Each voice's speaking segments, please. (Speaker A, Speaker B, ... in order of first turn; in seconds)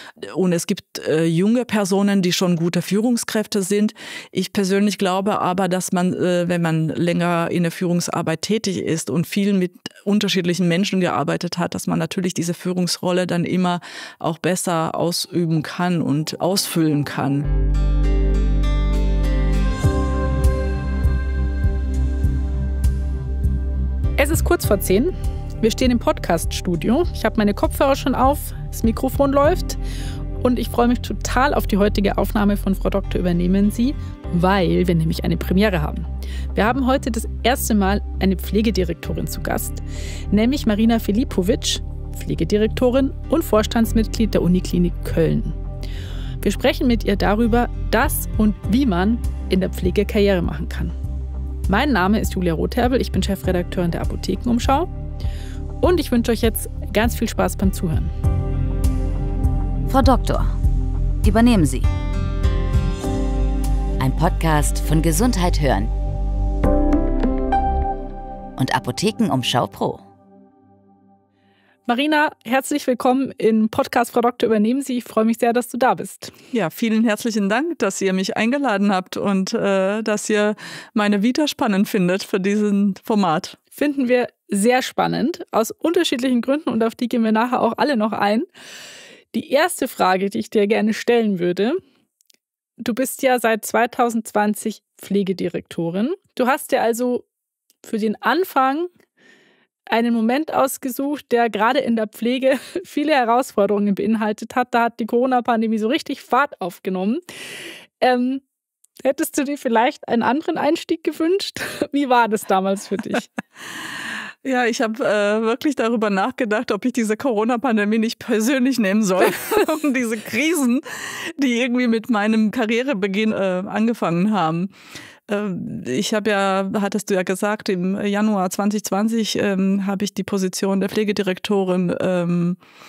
Speaker A: 0.2-17.5, 76.5-83.6, 114.4-124.7, 125.3-132.6
Speaker B: 24.2-29.8, 30.4-45.6, 46.4-50.9, 51.7-54.9, 55.8-58.1, 71.8-76.3, 83.7-88.5, 89.3-91.8, 92.8-97.2, 97.8-98.9, 99.9-107.2, 108.0-108.4, 109.0-113.3
Speaker C: 59.9-60.6, 61.2-61.9, 64.0-65.9, 68.6-70.0